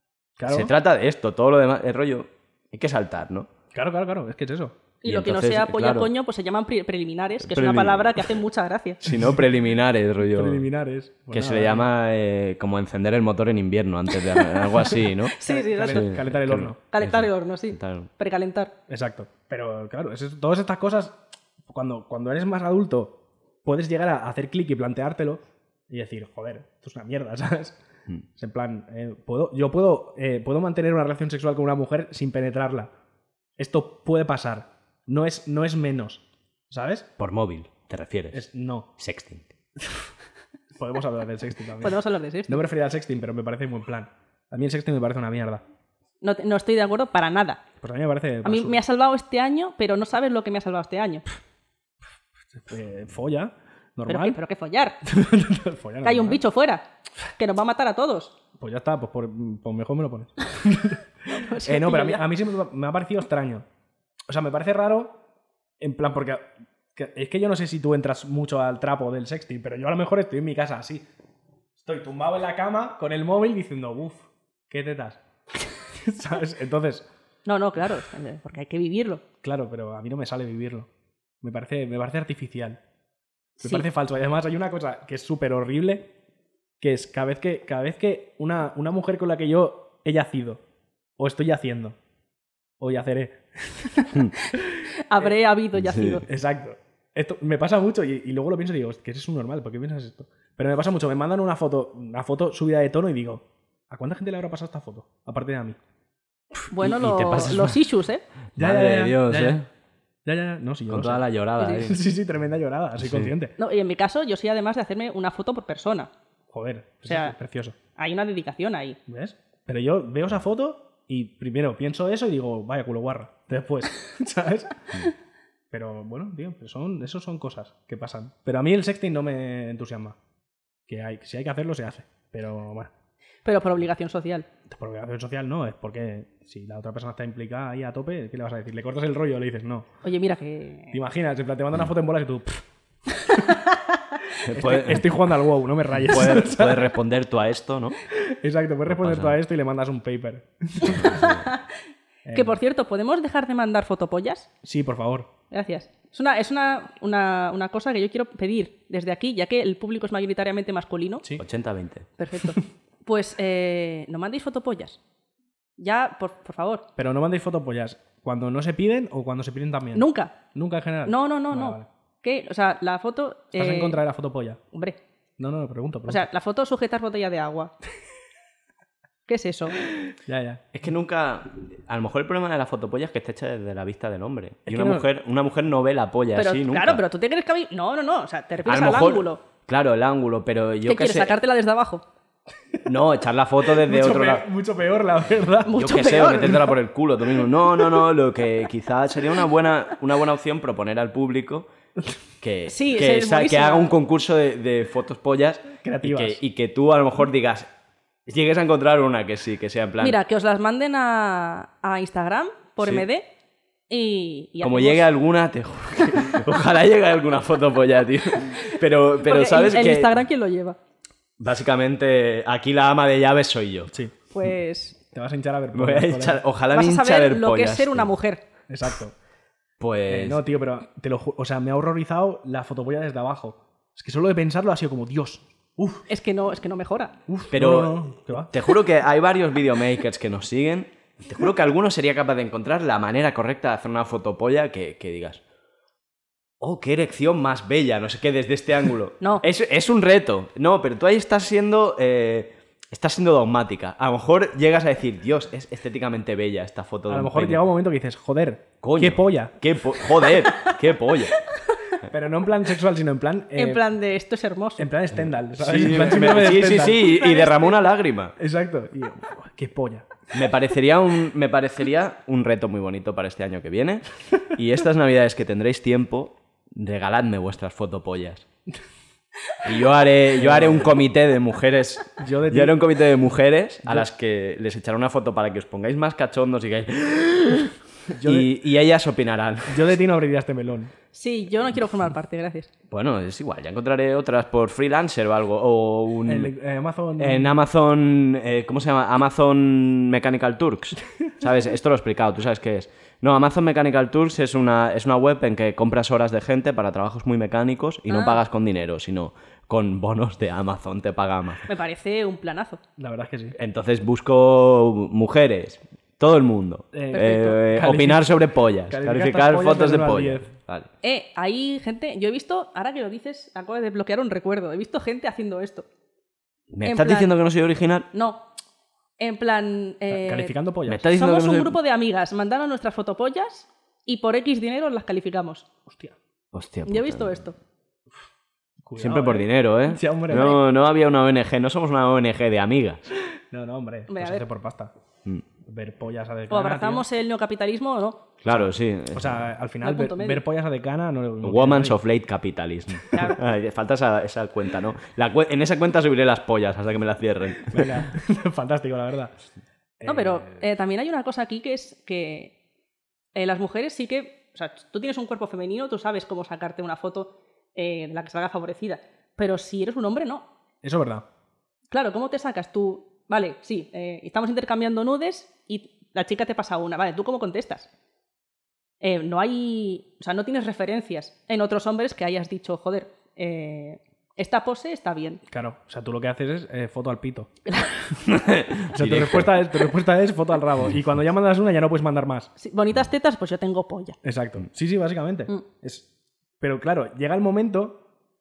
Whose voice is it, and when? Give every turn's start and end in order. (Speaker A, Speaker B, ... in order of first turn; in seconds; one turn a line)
Speaker A: 0.4-0.7
Speaker B: 0.5-3.5
Speaker A: 3.7-4.8
Speaker C: 5.0-9.0
Speaker B: 5.0-6.1
Speaker B: 7.5-8.3
Speaker B: 9.0-10.6
Speaker A: 10.3-11.9
Speaker B: 11.3-18.1
Speaker C: 14.4-14.7
Speaker C: 15.3-16.1
Speaker A: 15.4-16.8
Speaker C: 16.9-18.7
Speaker A: 18.9-27.8
Speaker A: 28.4-32.9
Speaker A: 33.6-37.1
Speaker B: 37.2-38.4
Speaker A: 38.3-38.9
Speaker B: 39.0-39.5
Speaker A: 40.7-45.6
Speaker C: 41.8-42.6
Speaker C: 46.2-47.6
Speaker A: 47.8-48.8
Speaker C: 48.4-51.2
Speaker A: 52.5-54.4
Speaker C: 54.0-55.0
Speaker A: 55.0-56.4
Speaker C: 56.0-56.8
Speaker C: 57.4-58.3
Speaker A: 58.6-63.7
Speaker C: 61.3-62.2
Speaker A: 64.3-65.2
Speaker A: 65.8-71.0
Speaker A: 71.8-75.2
Speaker A: 75.9-77.0
Speaker C: 77.5-79.2
Speaker A: 79.4-80.9
Speaker A: 81.4-82.8
Speaker A: 83.6-86.1
Speaker A: 86.8-90.6
Speaker A: 91.2-92.0
Speaker A: 92.8-94.1
Speaker C: 94.5-96.2
Speaker B: 95.8-96.2
Speaker A: 96.2-105.8
Speaker C: 106.7-108.2
Speaker B: 106.7-107.8
Speaker B: 108.5-109.7
Speaker A: 108.6-109.6
Speaker A: 110.2-111.2
Speaker B: 110.9-112.0
Speaker C: 111.6-111.8
Speaker A: 111.8-113.5
Speaker B: 113.0-113.3
Speaker C: 113.6-116.1
Speaker A: 116.5-117.8
Speaker C: 117.1-117.3
Speaker C: 118.0-119.0
Speaker A: 119.1-125.0
Speaker A: 125.7-130.2
Speaker A: 130.9-132.9
Speaker C: 133.4-134.4
Speaker A: 134.7-139.9
Speaker C: 140.0-140.9
Speaker A: 140.9-142.6
Speaker C: 143.3-143.7
Speaker B: 144.5-145.2
Speaker A: 144.5-146.9
Speaker B: 146.1-148.0
Speaker A: 148.2-151.3
Speaker B: 148.9-149.3
Speaker B: 150.8-151.4
Speaker C: 151.1-151.6
Speaker A: 152.2-152.6
Speaker C: 152.3-154.5
Speaker A: 154.6-155.3
Speaker C: 155.5-161.2
Speaker B: 161.4-162.1
Speaker C: 162.2-165.0
Speaker C: 165.8-166.8
Speaker A: 167.0-171.9
Speaker C: 169.9-170.3
Speaker C: 171.0-174.0
Speaker A: 173.5-174.6
Speaker C: 174.7-175.0
Speaker A: 175.4-176.2
Speaker C: 176.1-177.7
Speaker C: 179.3-179.8
Speaker A: 180.2-180.6
Speaker B: 180.7-187.0
Speaker A: 184.7-185.1
Speaker C: 186.3-189.4
Speaker B: 188.7-191.3
Speaker C: 190.8-192.0
Speaker B: 192.8-194.4
Speaker A: 193.7-196.7
Speaker C: 195.7-196.6
Speaker B: 195.7-201.7
Speaker B: 202.4-207.7
Speaker C: 202.7-203.9
Speaker A: 205.8-206.4
Speaker B: 208.3-210.2
Speaker C: 210.0-213.2
Speaker C: 213.9-215.1
Speaker B: 214.6-220.2
Speaker C: 219.2-220.8
Speaker B: 221.4-223.9
Speaker A: 223.9-224.1
Speaker C: 224.3-225.0
Speaker A: 225.1-226.4
Speaker B: 225.7-228.1
Speaker C: 226.7-228.4
Speaker A: 228.7-229.1
Speaker B: 229.8-230.4
Speaker A: 230.1-236.0
Speaker C: 236.1-237.1
Speaker A: 237.3-238.5
Speaker B: 237.5-245.4
Speaker B: 246.6-257.6
Speaker A: 257.1-259.6
Speaker B: 258.8-261.4
Speaker A: 262.1-263.8
Speaker C: 263.6-264.9
Speaker A: 264.8-267.0
Speaker B: 265.6-268.4
Speaker C: 266.8-267.8
Speaker A: 268.4-270.1
Speaker B: 270.3-278.4
Speaker B: 279.6-289.9
Speaker A: 280.4-280.9
Speaker A: 282.2-282.8
Speaker A: 288.1-288.5
Speaker A: 289.7-290.9
Speaker C: 291.1-292.7
Speaker B: 292.9-296.5
Speaker A: 296.2-297.5
Speaker B: 297.2-311.6
Speaker C: 308.1-308.4
Speaker C: 311.7-312.8
Speaker A: 313.0-313.6
Speaker B: 313.6-320.9
Speaker A: 316.9-318.4
Speaker A: 318.9-320.5
Speaker C: 321.0-325.9
Speaker B: 326.7-328.1
Speaker C: 326.8-327.3
Speaker C: 328.1-328.4
Speaker C: 329.2-330.5
Speaker A: 330.1-331.1
Speaker B: 330.9-331.8
Speaker C: 331.1-335.6
Speaker A: 335.9-336.1
Speaker B: 336.5-337.4
Speaker C: 336.9-337.5
Speaker A: 338.8-340.6
Speaker B: 339.0-343.0
Speaker C: 340.3-340.6
Speaker A: 343.5-344.9
Speaker C: 344.1-344.4
Speaker A: 345.6-347.0
Speaker C: 346.5-348.2
Speaker B: 348.4-349.4
Speaker A: 348.5-352.0
Speaker C: 349.8-350.4
Speaker B: 351.4-358.0
Speaker C: 353.1-353.4
Speaker A: 357.7-359.3
Speaker A: 360.0-360.6
Speaker C: 360.1-362.5
Speaker C: 363.3-370.4
Speaker A: 370.8-371.2
Speaker C: 371.9-377.9
Speaker C: 379.0-385.4
Speaker A: 385.5-387.5
Speaker B: 388.2-389.7
Speaker A: 388.9-392.5
Speaker C: 392.6-394.2
Speaker A: 394.2-396.1
Speaker A: 396.6-398.0